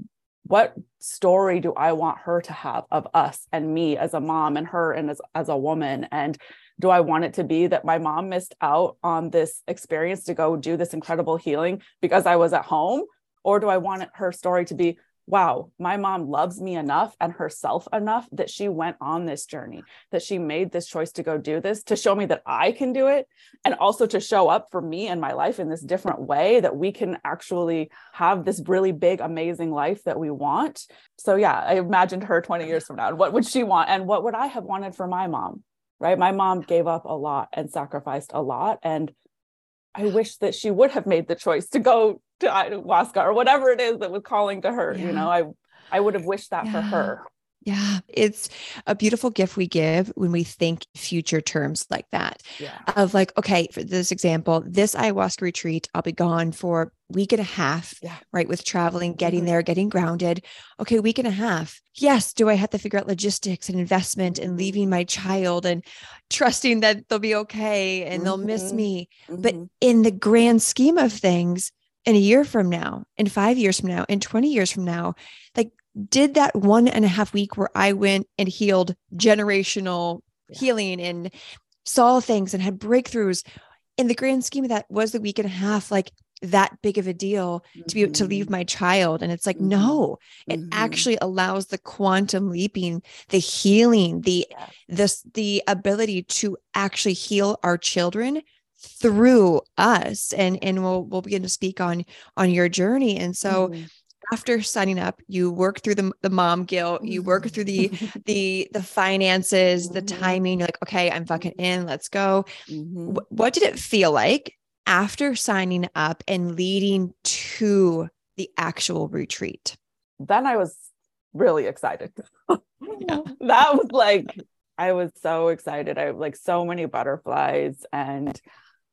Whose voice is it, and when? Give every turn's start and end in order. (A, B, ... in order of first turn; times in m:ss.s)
0:00.4-0:39.1 A
0:39.9-0:47.2 A
0:44.9-0:45.3 B
0:46.6-1:21.3 B
0:52.6-0:52.9 A
1:04.3-1:04.8 A
1:08.1-1:09.7 A
1:21.8-1:23.4 B
1:24.0-1:43.7 B
1:27.8-1:28.5 A
1:29.6-1:31.1 A
1:43.5-1:43.9 A
1:44.3-1:52.4 B
1:47.0-1:48.2 A
1:49.8-1:50.4 A
1:52.7-1:53.2 A
1:53.1-1:59.8 B
2:00.2-2:08.4 A
2:03.0-2:03.3 B